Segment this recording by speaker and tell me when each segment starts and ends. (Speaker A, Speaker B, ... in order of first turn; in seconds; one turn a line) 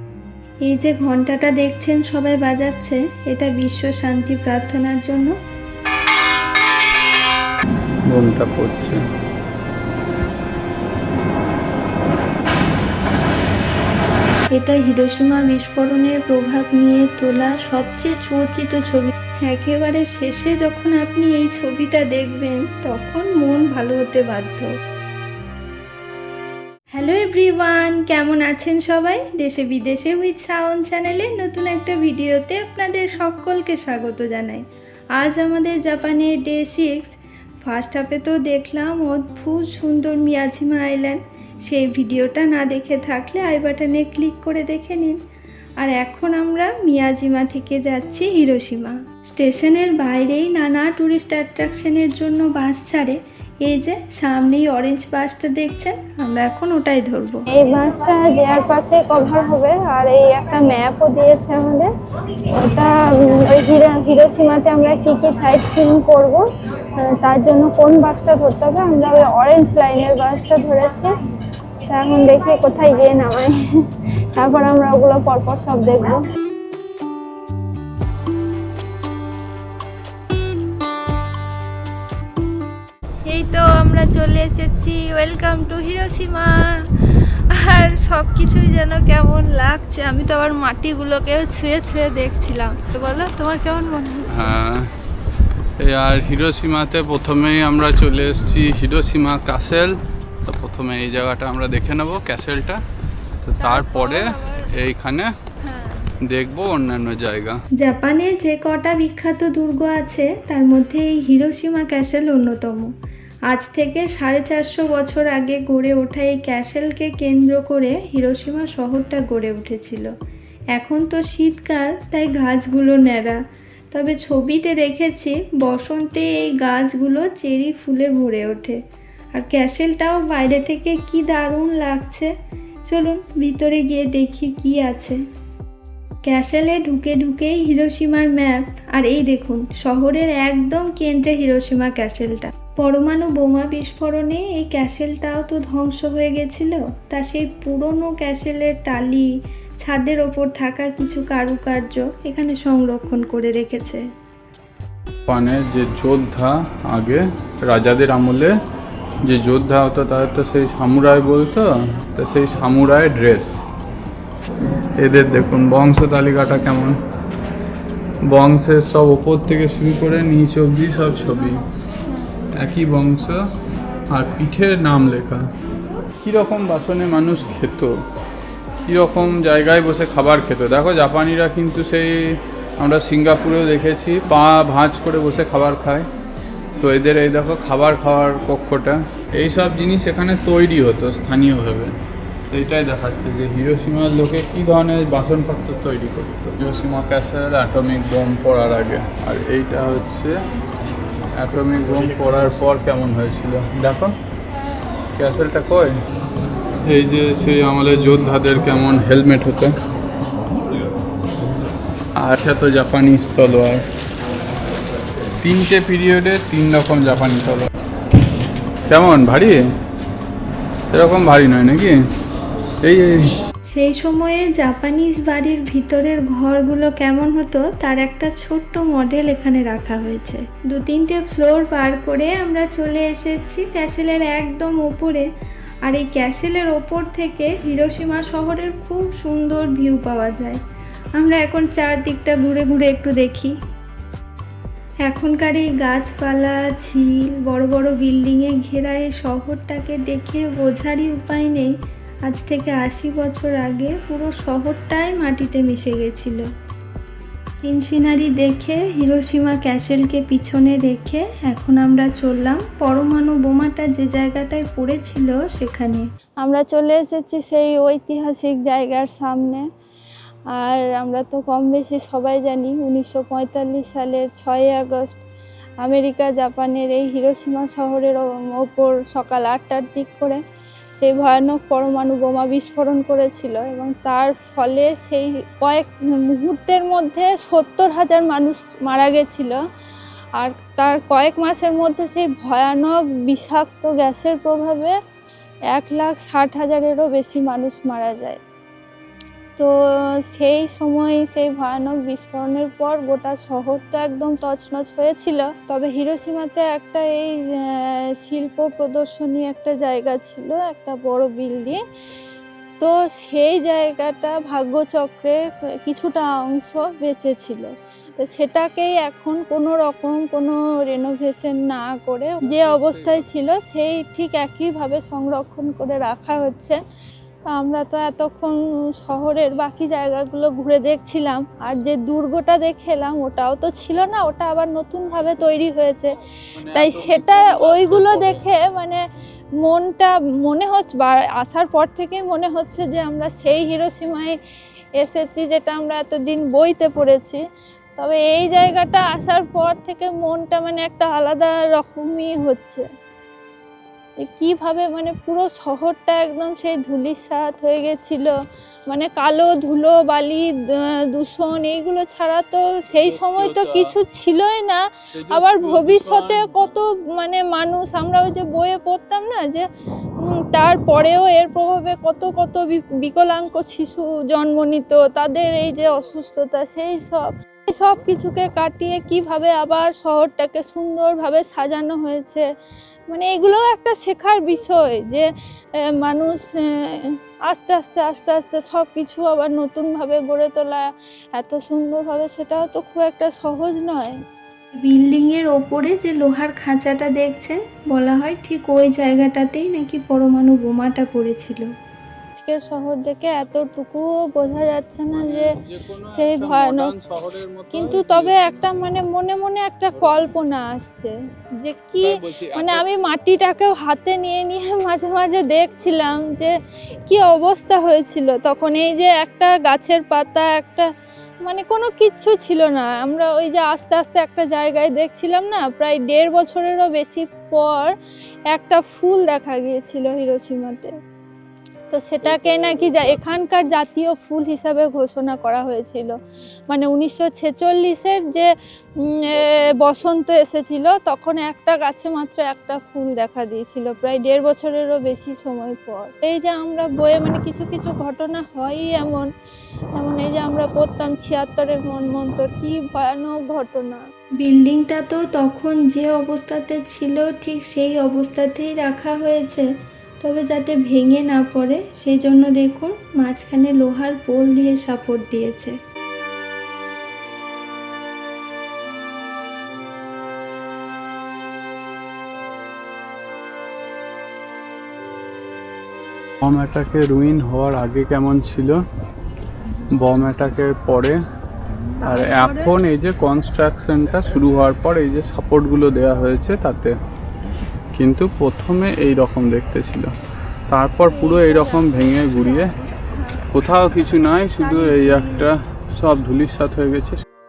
Speaker A: 0.7-5.3
Speaker B: 8.1-9.0
Speaker A: 14.6-24.7
Speaker A: 27.0-34.6
Speaker A: 35.2-37.1
Speaker A: 37.6-45.2
Speaker A: 45.8-57.4
Speaker C: 57.5-61.9
Speaker C: 62.5-66.4
Speaker C: 67.0-71.1
Speaker C: 71.9-73.6
Speaker C: 74.3-76.2
Speaker C: 83.3-86.5
Speaker C: 87.7-91.9
Speaker A: 91.8-92.8
Speaker C: 92.8-94.4
Speaker B: 94.3-94.9
Speaker B: 95.8-102.8
Speaker B: 103.4-105.3
Speaker C: 103.6-104.7
Speaker C: 105.6-106.1
Speaker B: 106.3-107.6
Speaker A: 107.8-112.9
Speaker A: 113.5-120.1
Speaker A: 120.8-123.4
Speaker A: 123.9-128.8
Speaker A: 129.4-132.3
Speaker A: 132.9-135.2
Speaker A: 136.3-149.3
Speaker A: 149.8-154.0
Speaker B: 155.3-158.5
Speaker B: 159.2-163.6
Speaker B: 165.0-167.0
Speaker B: 168.3-171.6
Speaker B: 172.6-173.4
Speaker B: 174.1-175.5
Speaker B: 176.2-178.0
Speaker B: 178.9-186.1
Speaker B: 186.8-191.9
Speaker B: 192.5-200.4
Speaker B: 201.4-204.2
Speaker B: 205.2-206.0
Speaker B: 206.9-209.8
Speaker B: 212.2-213.8
Speaker B: 215.4-217.7
Speaker B: 218.9-219.6
Speaker B: 220.9-221.9
Speaker B: 222.8-223.3
Speaker A: 223.7-235.2
Speaker A: 235.8-240.6
Speaker A: 241.2-243.5
Speaker A: 245.1-251.7
Speaker A: 252.3-256.4
Speaker A: 257.6-266.1
Speaker C: 266.4-269.7
Speaker C: 270.5-275.2
Speaker C: 275.8-280.4
Speaker C: 281.0-289.6
Speaker C: 290.4-295.0
Speaker C: 295.7-298.4
Speaker C: 300.3-311.8
Speaker C: 312.8-326.8
Speaker B: 322.4-323.3
Speaker C: 327.5-336.1
Speaker B: 336.6-338.4
Speaker C: 336.7-339.0
Speaker C: 339.6-344.4
Speaker C: 345.0-347.4
Speaker C: 348.0-352.9
Speaker C: 354.2-358.3
Speaker C: 358.9-360.5
Speaker C: 361.1-369.7
Speaker B: 362.9-363.9
Speaker B: 365.1-366.8
Speaker C: 370.5-382.5
Speaker C: 383.1-385.3
Speaker C: 385.9-394.1
Speaker A: 394.8-401.7
Speaker C: 402.4-405.4
Speaker B: 405.1-409.0
Speaker C: 406.1-406.9
Speaker C: 407.7-416.5
Speaker B: 409.9-410.3
Speaker B: 412.0-412.9
Speaker C: 417.1-420.9
Speaker C: 421.4-427.9
Speaker C: 428.5-430.9
Speaker C: 431.9-436.1
Speaker B: 432.3-433.2
Speaker C: 436.7-438.5
Speaker C: 439.1-449.3
Speaker C: 450.0-454.0
Speaker A: 454.4-459.6
Speaker A: 460.2-465.8
Speaker B: 476.4-478.8
Speaker B: 480.0-481.2
Speaker B: 482.0-486.9
Speaker C: 482.1-482.7
Speaker B: 487.9-490.1
Speaker B: 490.7-492.7
Speaker C: 491.0-493.4
Speaker B: 493.5-497.2
Speaker C: 494.6-495.5